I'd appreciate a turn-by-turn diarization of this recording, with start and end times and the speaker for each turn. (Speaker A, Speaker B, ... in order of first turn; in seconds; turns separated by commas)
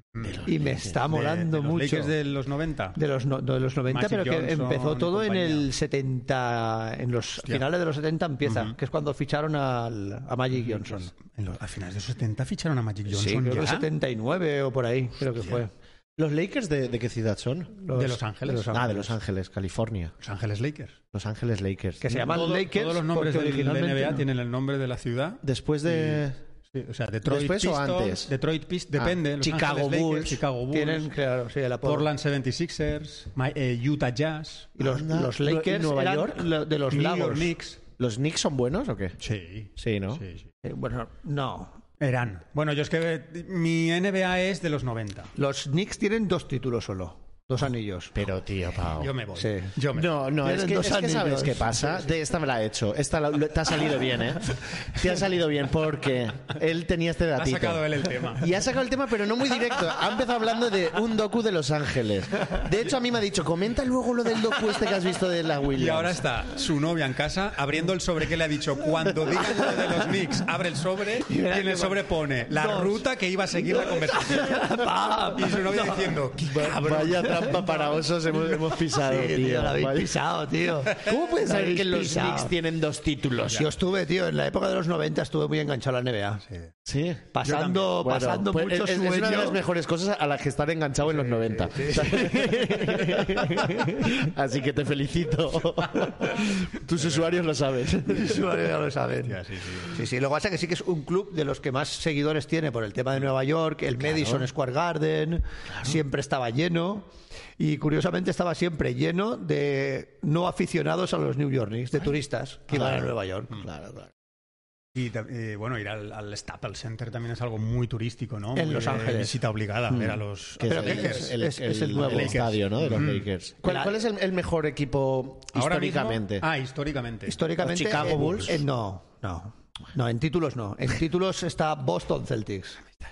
Speaker A: 0.1-0.5, Speaker B: 0.2-0.9, Speaker C: 0.4-2.1, Speaker A: 1.1-3.0, Speaker C: 3.0-11.1, Speaker A: 3.9-5.7, Speaker A: 8.4-8.8, Speaker A: 10.5-13.9, Speaker C: 13.1-15.7, Speaker B: 16.2-17.8, Speaker C: 17.9-19.1, Speaker A: 17.9-18.8, Speaker B: 18.7-20.1, Speaker A: 20.2-21.0, Speaker B: 21.1-22.6, Speaker C: 22.0-24.2, Speaker A: 22.1-31.1, Speaker B: 25.4-26.4, Speaker B: 27.2-28.3, Speaker B: 28.9-30.4, Speaker C: 30.7-32.1, Speaker A: 31.8-34.7, Speaker C: 34.8-37.5, Speaker B: 34.8-36.5, Speaker A: 36.9-37.8, Speaker B: 38.0-39.2, Speaker A: 39.2-40.5, Speaker B: 39.8-40.2, Speaker C: 40.6-41.7, Speaker A: 42.0-45.3, Speaker C: 45.4-48.1, Speaker B: 48.1-49.1, Speaker A: 49.0-50.1, Speaker C: 49.4-49.7, Speaker B: 49.9-66.2, Speaker C: 50.4-52.1, Speaker A: 57.4-58.5, Speaker A: 65.7-78.0, Speaker C: 71.3-76.2, Speaker B: 76.5-80.2, Speaker C: 77.3-77.6, Speaker C: 78.8-82.5, Speaker B: 80.9-83.7, Speaker C: 83.5-86.4, Speaker B: 86.8-87.3, Speaker C: 87.3-89.6, Speaker A: 87.4-88.0, Speaker B: 88.0-98.5, Speaker C: 91.1-94.3, Speaker A: 97.0-97.4, Speaker C: 98.0-113.7, Speaker A: 99.2-100.0, Speaker B: 104.0-104.5, Speaker B: 105.7-106.0, Speaker B: 112.7-114.1, Speaker A: 114.9-121.3, Speaker C: 118.5-119.3, Speaker B: 120.6-126.5, Speaker C: 120.7-122.4, Speaker A: 121.9-123.3, Speaker C: 123.6-123.9, Speaker A: 125.5-127.4, Speaker C: 127.3-132.8, Speaker B: 127.6-128.6